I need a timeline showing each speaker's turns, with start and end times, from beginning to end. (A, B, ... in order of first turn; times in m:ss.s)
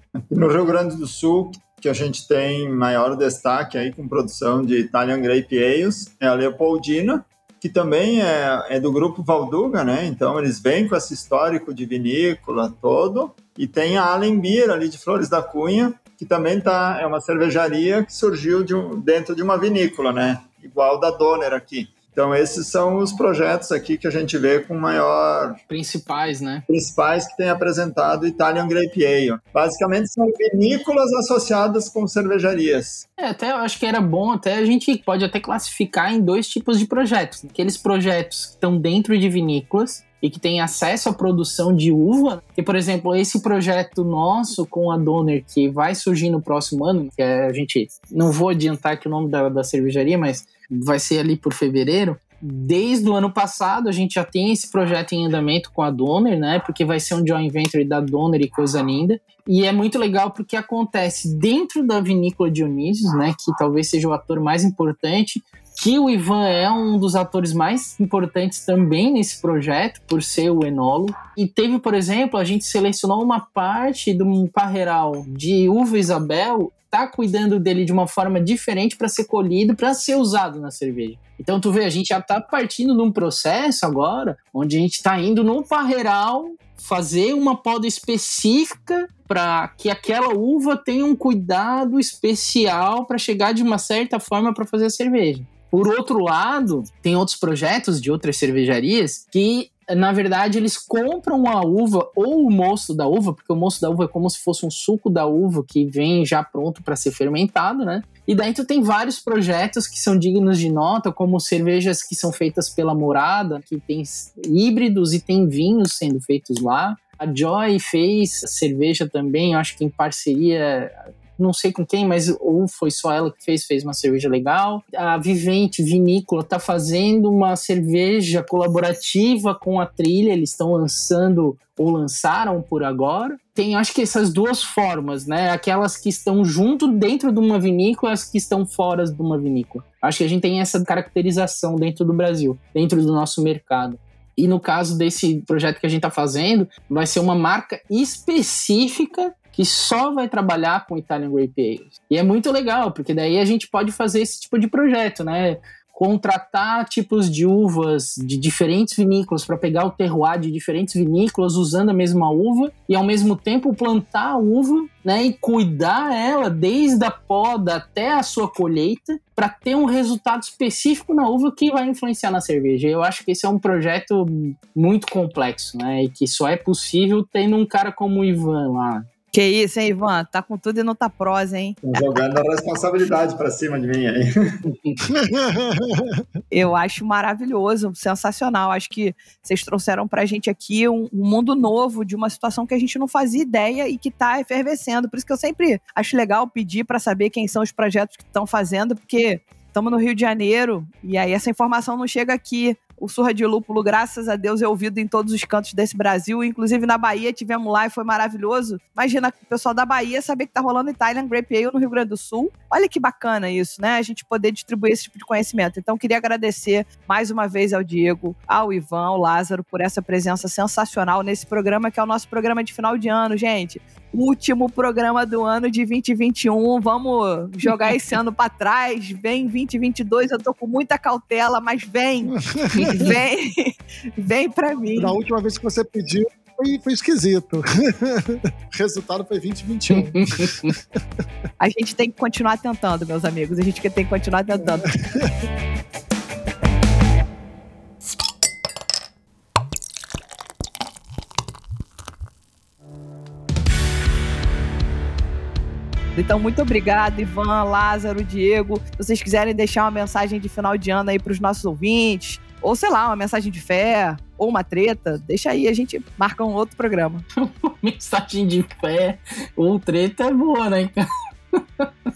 0:00.2-0:25.6 A
0:25.7-0:26.6 B
0:26.7-0:33.0 A
0:33.2-2:59.1 B
2:59.3-3:02.1 C
3:01.8-3:04.3 A
3:04.6-3:04.9 B
3:05.1-3:06.2 D
3:06.5-3:55.1 C
3:52.4-3:53.1 D
3:55.0-4:00.5 D
3:59.9-4:00.7 B
4:01.6-4:04.9 C
4:16.1-4:27.2 C
4:27.4-4:31.0 B